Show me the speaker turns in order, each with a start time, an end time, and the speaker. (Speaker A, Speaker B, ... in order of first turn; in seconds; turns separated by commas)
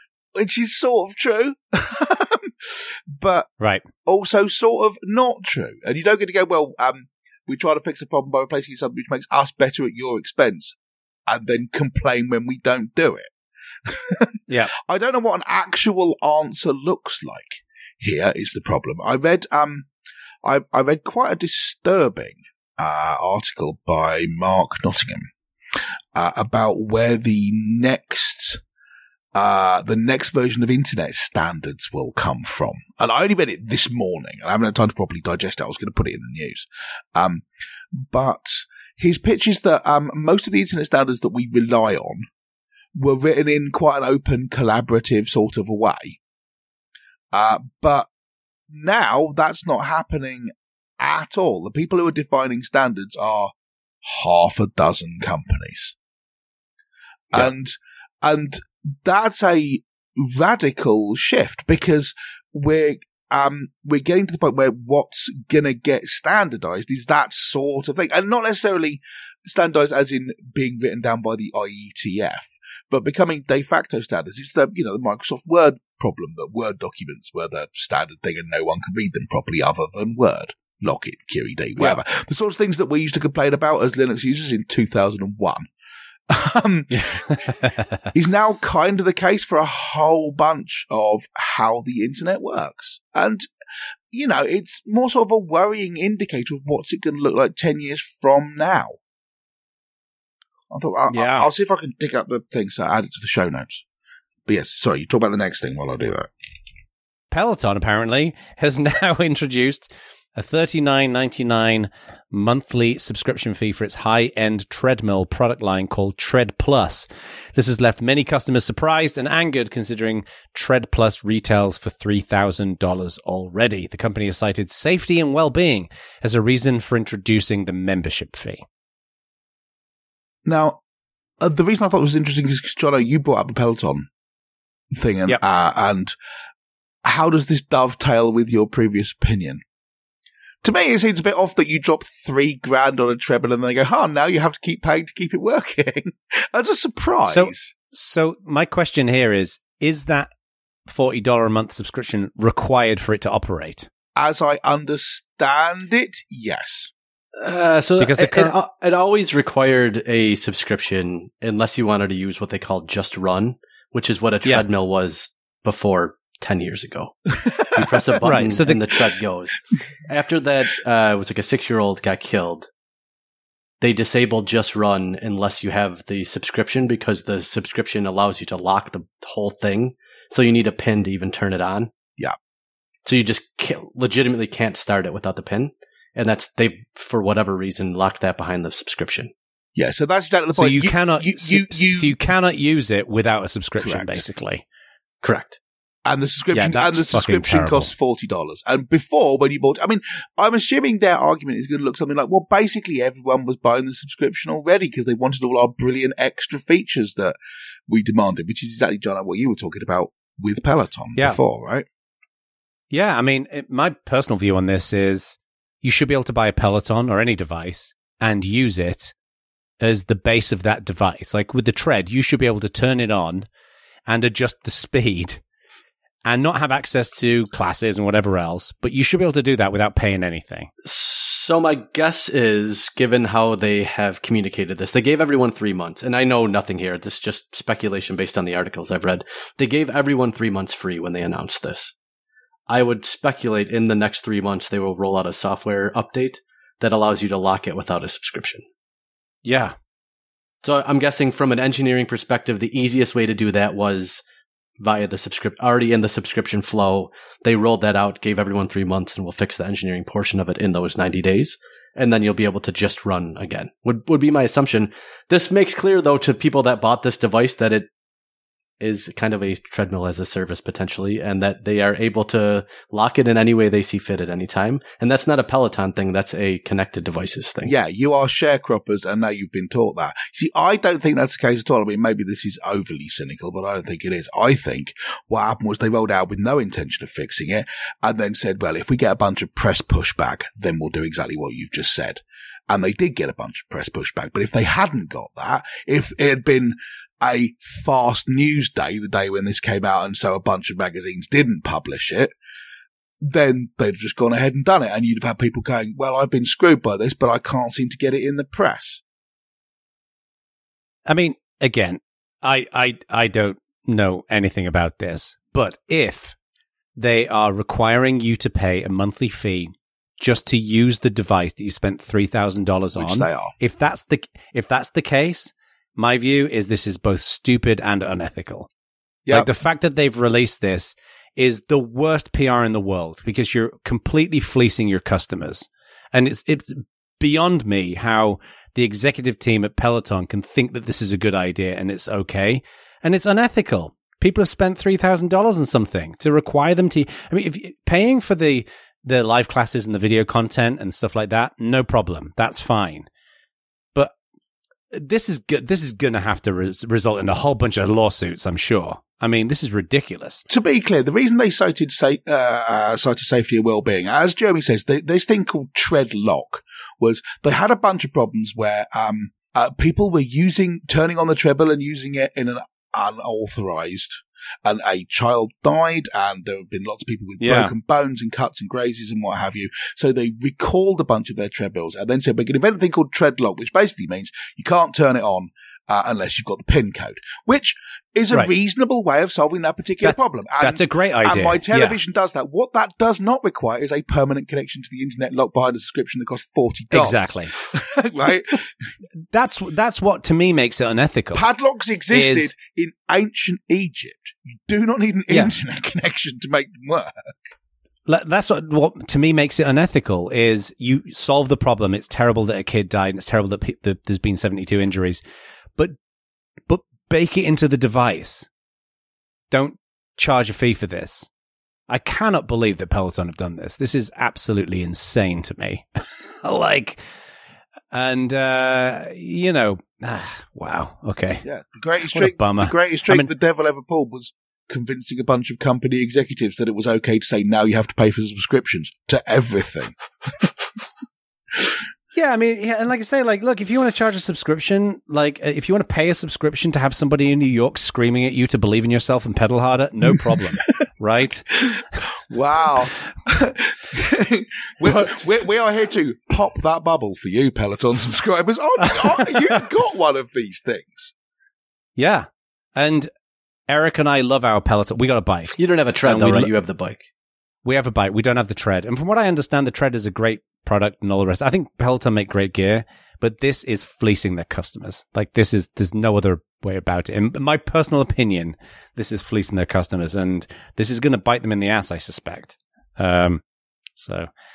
Speaker A: 0.3-3.5, Speaker A: 4.0-10.8, Speaker A: 11.3-13.3, Speaker A: 13.8-19.9, Speaker A: 20.4-25.3, Speaker A: 26.1-28.6, Speaker A: 29.3-42.2, Speaker A: 43.0-46.2, Speaker A: 47.3-48.1, Speaker A: 48.7-56.0, Speaker A: 57.3-85.7, Speaker A: 86.3-87.5, Speaker B: 87.0-88.1, Speaker A: 88.1-93.4, Speaker A: 94.1-99.0, Speaker A: 100.7-103.8, Speaker B: 101.1-101.5, Speaker A: 104.5-106.3, Speaker B: 107.3-128.6, Speaker A: 130.4-130.8, Speaker A: 131.4-134.1, Speaker A: 134.9-136.1, Speaker A: 137.0-139.6, Speaker A: 140.6-147.7, Speaker B: 147.3-150.3, Speaker B: 150.9-153.9, Speaker A: 154.2-156.9, Speaker C: 157.4-172.7, Speaker B: 158.0-158.6, Speaker A: 167.4-168.0, Speaker B: 168.2-168.8, Speaker C: 173.8-181.9, Speaker C: 183.0-189.3, Speaker A: 189.8-192.2, Speaker B: 190.6-194.6, Speaker A: 193.8-194.2, Speaker C: 195.2-195.6, Speaker A: 196.1-207.3, Speaker B: 196.5-197.9, Speaker A: 207.9-211.9, Speaker B: 212.9-219.1, Speaker B: 219.8-223.5, Speaker B: 224.1-225.4, Speaker B: 226.2-230.7, Speaker C: 230.8-241.9, Speaker C: 242.7-248.6, Speaker B: 249.4-249.7, Speaker C: 250.6-254.2, Speaker C: 254.8-267.9, Speaker C: 268.8-277.7, Speaker A: 277.6-302.3, Speaker A: 303.2-309.0, Speaker B: 311.1-316.4, Speaker B: 316.9-328.7, Speaker A: 322.9-323.5, Speaker B: 329.3-353.1, Speaker B: 354.9-360.4, Speaker A: 360.5-398.7, Speaker B: 377.4-377.7, Speaker B: 390.0-392.0, Speaker B: 396.9-397.5, Speaker B: 399.3-401.4, Speaker A: 401.3-407.4, Speaker B: 402.1-402.5, Speaker B: 408.1-415.2, Speaker B: 416.7-418.5, Speaker B: 419.5-421.3, Speaker B: 421.9-427.0, Speaker B: 427.9-431.4, Speaker A: 431.4-439.9, Speaker B: 432.1-433.3, Speaker B: 442.1-451.6, Speaker A: 451.7-461.1, Speaker B: 454.9-455.2, Speaker B: 458.8-459.4, Speaker B: 462.0-463.1, Speaker B: 463.7-466.5, Speaker C: 465.6-467.0, Speaker B: 467.6-483.4, Speaker B: 483.9-484.3